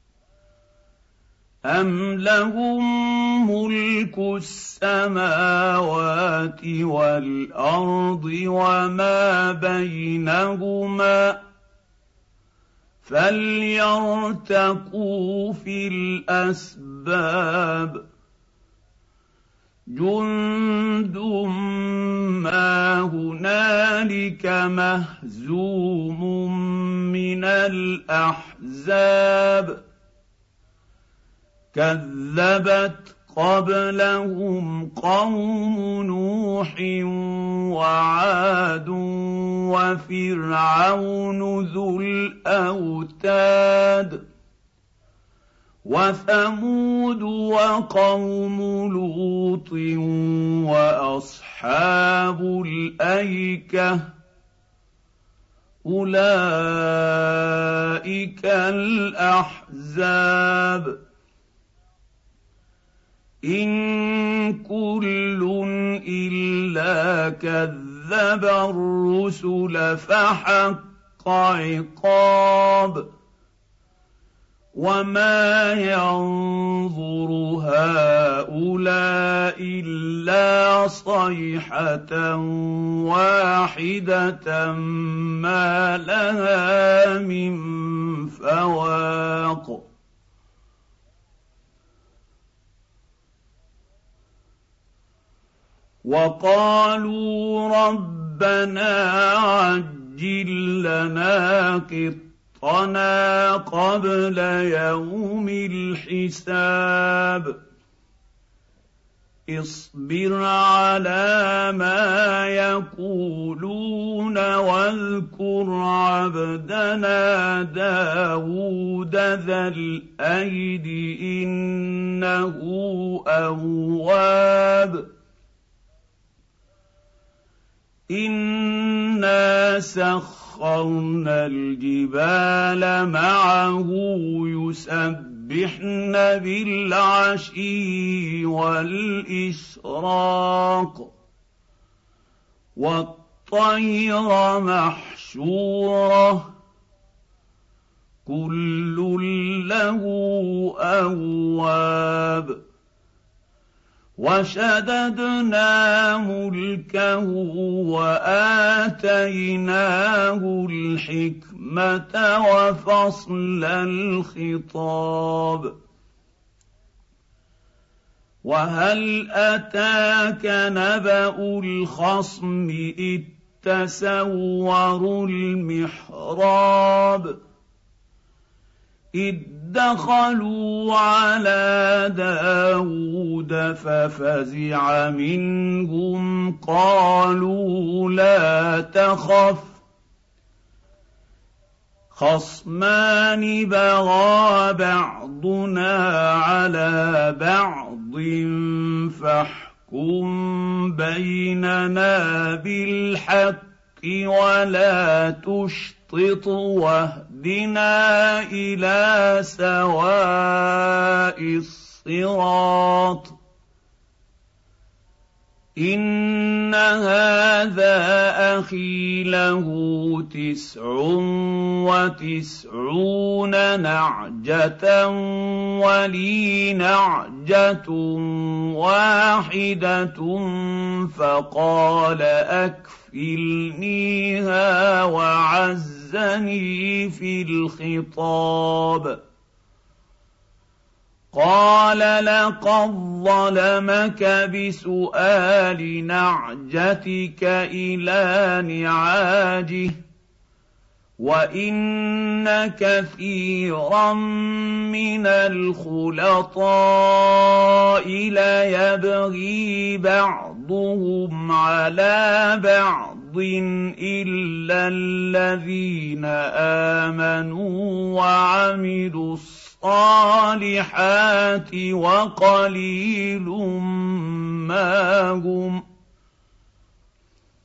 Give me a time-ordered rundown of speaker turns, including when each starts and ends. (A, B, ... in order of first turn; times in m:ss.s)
0:01.7-0:11.4 A
0:13.0-0:18.0 A
0:19.9-0:29.8 A
0:31.7-0:44.2 A
0:45.8-0:54.0 A
0:55.8-1:01.0 A
1:03.4-1:13.0 A
1:14.8-1:29.8 A
1:36.0-1:47.6 A
1:49.5-2:05.1 A
2:08.1-2:21.1 A
2:22.8-2:26.5 A
2:28.3-2:32.6 A
2:34.2-2:45.7 A
2:48.4-2:57.3 A
2:59.2-3:09.8 A
3:12.1-3:33.4 A
3:35.8-3:59.2 A
4:01.3-4:10.0 A
4:11.2-4:35.8 A